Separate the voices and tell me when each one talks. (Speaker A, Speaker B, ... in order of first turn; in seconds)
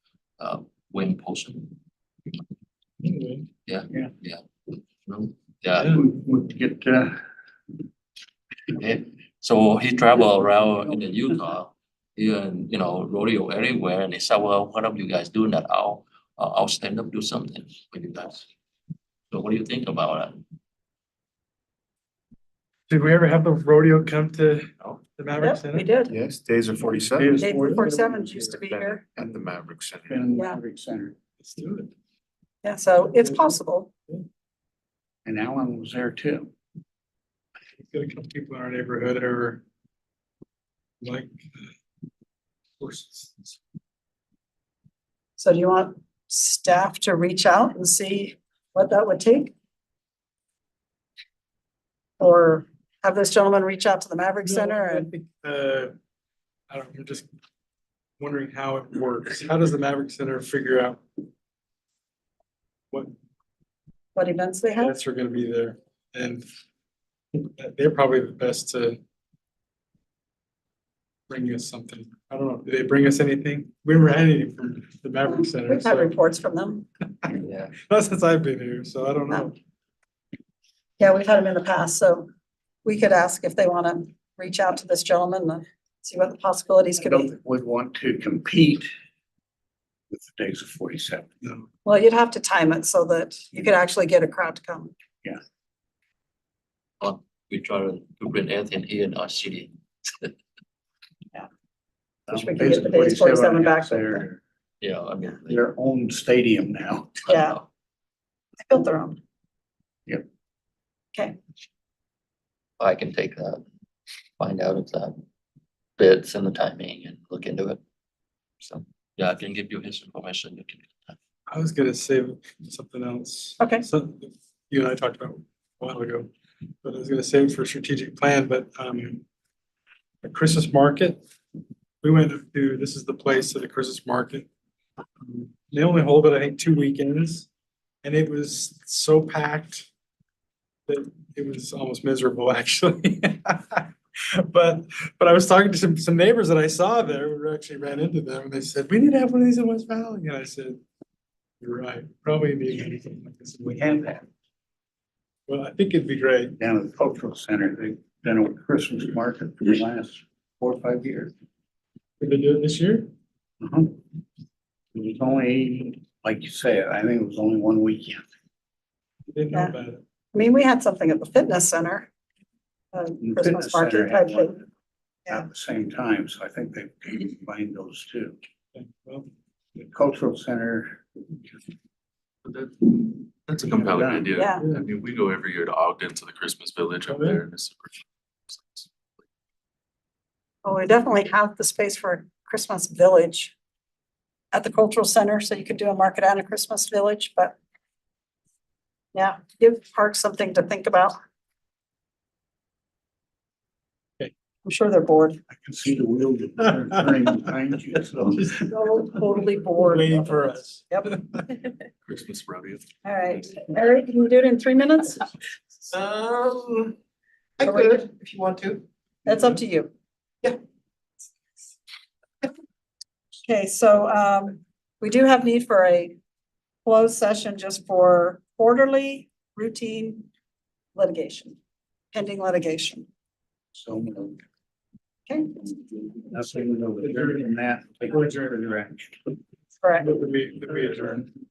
Speaker A: 0.4-1.7, 3.7-6.0, 8.7-18.5, 19.3-20.4, 77.5-77.7, 97.0-100.3, 104.8-105.6, 107.3-107.6, 112.8-113.6, 114.4-115.2, 116.0-117.8, 118.6-121.2
Speaker B: 3.0-3.5, 22.9-25.9, 31.4-31.9, 33.2-33.5, 37.9-39.6, 41.0-41.6, 42.8-43.6, 54.4-55.9, 56.7-57.3, 58.2-61.0, 64.8-66.5, 67.4-69.0, 71.3-76.1, 77.8-79.5, 121.5-126.3, 126.8-129.2, 130.2-131.2, 132.0-134.5, 135.2-137.5, 138.0-139.9, 140.9-150.8, 151.6-154.2, 155.5-156.6, 162.2-163.1, 169.3-170.0, 178.8-179.3, 184.5-184.8, 187.1-187.4, 209.8-211.5, 240.0-241.3
Speaker C: 5.9-7.2, 27.0-28.6, 30.1-31.1, 35.2-36.5, 87.0-88.9, 90.1-91.3, 102.3-104.4, 105.5-107.2, 156.6-161.3, 163.6-164.0, 164.9-168.3, 173.2-174.6, 175.3-178.4, 179.8-181.0, 183.8-184.3, 205.5-208.6, 233.7-234.4, 236.2-239.2
Speaker D: 25.4-26.1, 27.4-29.0, 32.6-33.9, 45.4-49.5, 52.2-55.1, 64.2-65.0, 75.3-76.9, 81.0-82.3, 82.8-87.3, 91.8-94.9, 102.3-104.2, 107.3-107.6, 108.6-109.2, 170.3-172.1, 172.9-174.6, 184.3-184.6, 190.6-193.5, 194.5-197.6, 199.1-201.2, 204.6-205.4, 208.5-211.1, 213.0-215.3, 217.6-218.1, 219.2-219.9, 223.4-226.2, 226.8-230.2, 230.9-231.6, 232.1-233.1, 235.3-235.7, 239.8-240.1
Speaker E: 26.1-27.7, 28.5-30.3
Speaker F: 182.4-188.9, 212.1-212.8
Speaker G: 216.2-216.9, 217.6-218.8